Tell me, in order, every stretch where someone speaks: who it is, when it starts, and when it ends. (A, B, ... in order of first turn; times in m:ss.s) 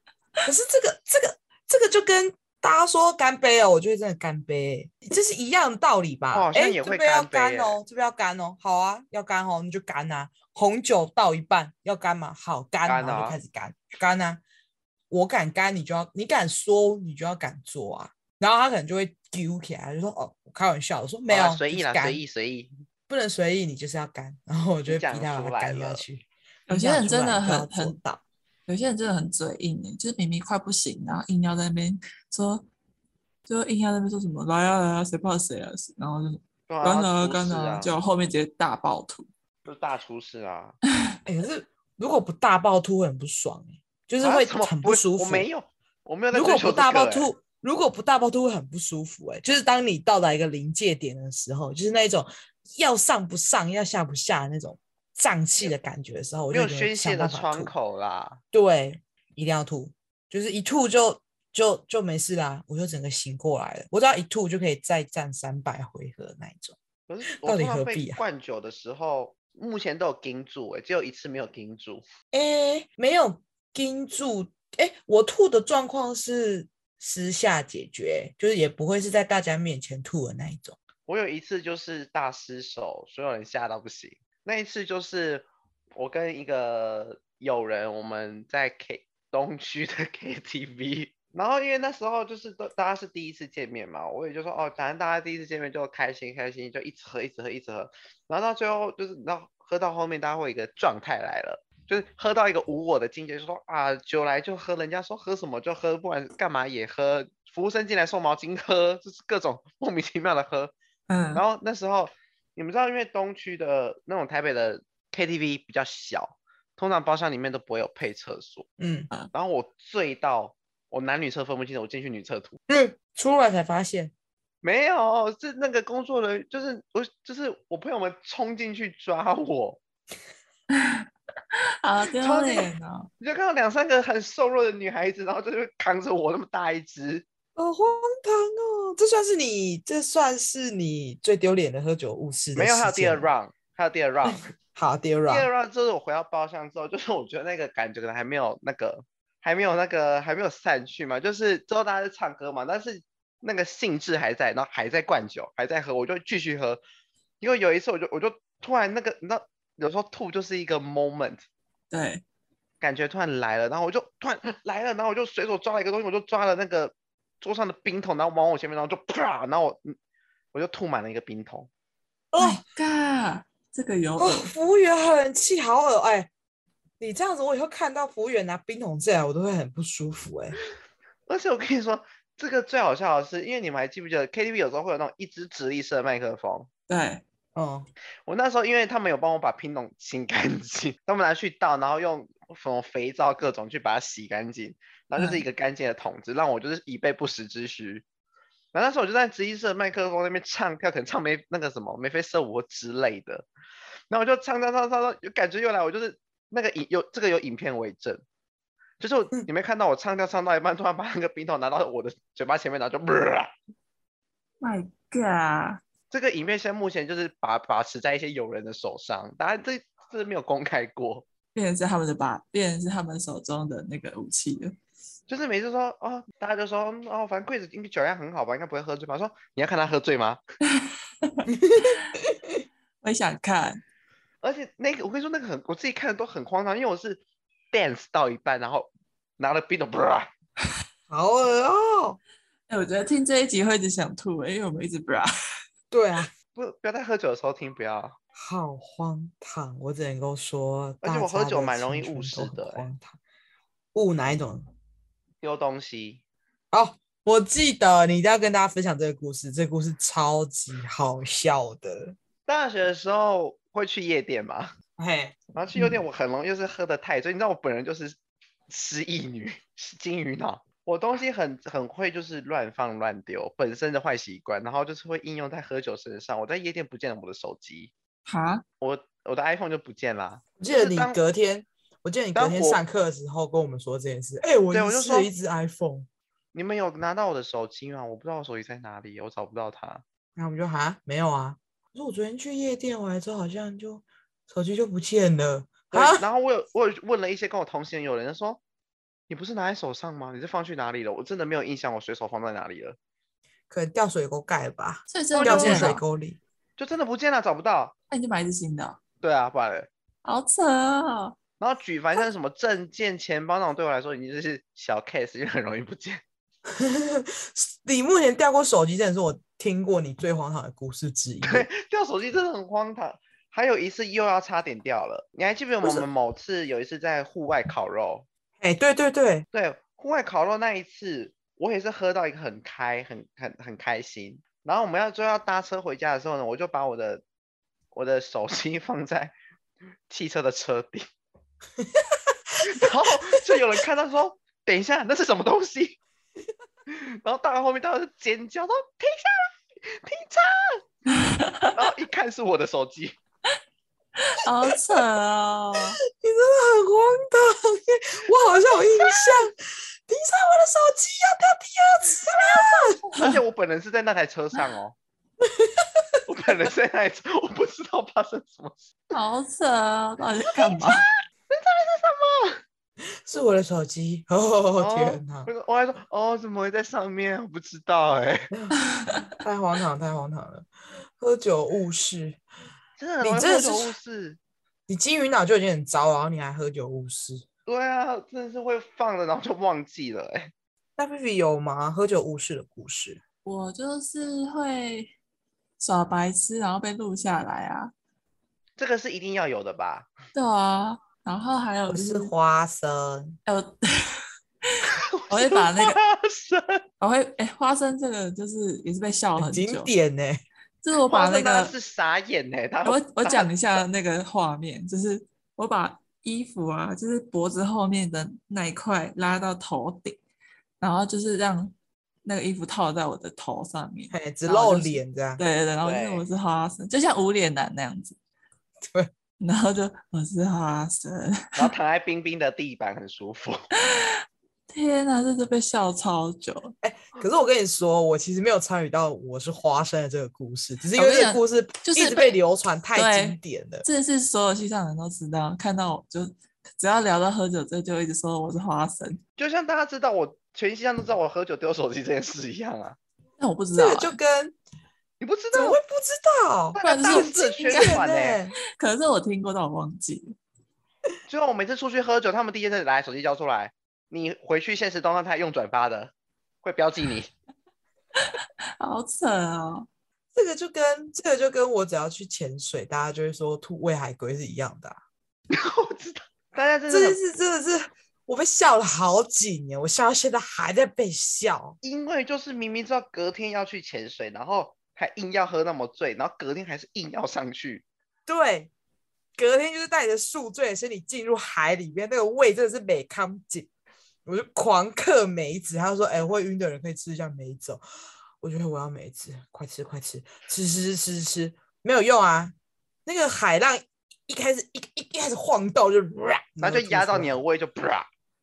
0:00.4-0:14.4 A
0:06.3-0:07.8 B
0:12.8-0:13.4 B
0:15.1-0:22.2 A
0:21.3-0:22.7 B
0:23.1-0:28.2 A
0:24.9-0:26.0 B
0:26.7-0:28.0 C
0:28.7-0:32.7 C
0:33.4-0:39.3 C
0:36.7-0:37.9 B
0:39.6-0:40.8 B
0:41.2-0:45.5 A
0:44.2-0:47.3 B
0:46.3-0:57.7 A
0:56.5-0:58.4 B
0:58.5-1:06.8 A
1:07.1-1:12.0 B
1:07.4-1:08.2 A
1:12.3-1:20.8 A
1:21.1-1:50.7 B
1:51.1-1:51.4 C
1:51.3-1:58.7 B
1:58.8-1:59.1 A
1:59.3-2:02.6 B
2:02.7-2:04.1 A
2:04.6-2:09.8 B
2:10.7-2:11.1 C
2:11.8-2:13.1 C
2:12.2-2:17.2 B
2:17.6-2:23.3 A
2:22.5-2:24.5 B
2:24.2-2:25.5 A
2:25.3-2:36.8 B
2:37.4-2:41.4 B
2:41.9-2:42.2 C
2:42.8-2:49.9 B
2:50.5-2:51.7 B
2:52.3-2:52.6 A
2:52.4-2:54.5 C
2:54.2-2:56.3 A
2:57.0-3:00.6 A
3:01.3-3:06.7 B
3:06.9-3:07.2 C
3:07.5-3:07.9 A
3:08.2-3:18.0 B
3:15.2-3:15.4 C
3:18.7-3:23.5 B
3:24.1-3:28.2 B
3:29.0-3:33.5 B
3:34.6-3:35.8 C
3:36.1-3:41.2 B
3:41.5-3:44.8 C
3:45.3-3:50.4 B
3:51.3-3:52.0 C
3:51.5-3:52.6 A
3:53.0-3:53.8 C
3:54.4-4:00.3 B
4:01.1-4:02.2 A
4:02.7-4:05.3 C
4:05.9-4:06.3 A
4:06.5-4:08.2 B
4:08.4-4:13.2 A
4:11.0-4:12.9 B
4:13.9-4:14.6 A
4:15.4-4:16.2 B
4:16.7-4:22.2 A
4:22.4-4:24.7 B
4:25.0-4:25.4 A
4:25.5-4:28.2 B
4:28.7-4:37.9 B
4:38.2-4:38.6 C
4:38.8-4:41.2 B
4:40.6-4:46.1 A
4:42.3-4:42.8 B
4:44.7-4:45.3 B
4:46.5-4:50.0 B
4:50.4-4:56.2 A
4:55.9-4:58.6 B
4:59.3-5:03.0 B
5:03.7-5:06.4 A
5:05.1-5:06.0 C
5:05.3-5:06.0 B
5:06.8-5:07.9 B
5:08.1-5:09.0 C
5:09.2-5:09.9 B
5:10.2-5:11.4 C
5:11.6-5:16.2 B
5:16.7-5:21.7 A
5:21.4-5:28.3 B
5:28.6-5:29.4 A
5:29.5-5:37.2 B
5:37.9-5:39.3 B
5:40.1-5:41.0 B
5:41.8-5:43.6 A
5:42.6-5:46.0 B
5:46.9-5:50.8 B
5:51.1-5:51.7 C
5:51.7-5:53.2 B
5:54.2-5:56.0 C
5:56.1-5:59.5 A
5:58.8-5:59.4 B
6:00.1-6:03.0 A
6:02.3-6:05.0 B
6:05.4-6:06.2 A
6:06.3-6:08.8 B
6:09.1-6:11.0 C
6:10.5-6:12.6 B
6:13.2-6:15.5 A
6:14.8-6:18.5 B
6:18.9-6:19.2 C
6:19.3-6:22.4 A
6:23.0-6:24.4 B
6:23.2-6:23.9 A
6:24.9-6:27.4 A
6:27.7-6:30.5 B
6:31.0-6:33.2 A
6:33.4-6:35.1 C
6:35.8-6:37.9 C
6:38.8-6:40.1 B
6:40.3-6:42.3 C
6:41.9-6:43.4 A
6:43.4-6:44.2 C
6:44.9-6:46.8 B
6:45.3-6:46.0 C
6:47.0-6:49.9 C
6:49.4-6:50.4 A
6:50.8-6:51.7 C
6:51.1-6:53.5 B
6:52.8-7:00.2 C
7:00.8-7:08.2 C
7:04.1-7:05.4 A
7:05.8-7:06.2 B
7:09.4-7:11.7 C
7:11.6-7:13.6 B
7:13.8-7:16.7 C
7:16.8-7:23.8 A
7:20.9-7:22.4 C
7:22.9-7:29.2 C
7:29.4-7:33.0 B
7:33.4-7:34.2 C
7:33.7-7:34.6 A
7:35.2-7:35.8 B
7:35.5-7:38.5 A
7:36.7-7:38.4 B
7:36.8-7:38.0 C
7:38.8-7:40.4 C
7:41.3-7:47.3 B
7:48.2-7:49.9 C
7:50.3-7:55.0 A
7:55.5-7:57.2 B
7:56.9-8:01.8 A
8:01.8-8:07.8 B
8:08.2-8:08.7 A
8:09.4-8:13.7 A
8:14.2-8:17.8 A
8:18.4-8:22.5 A
8:23.0-8:27.4 A
8:26.6-8:28.1 B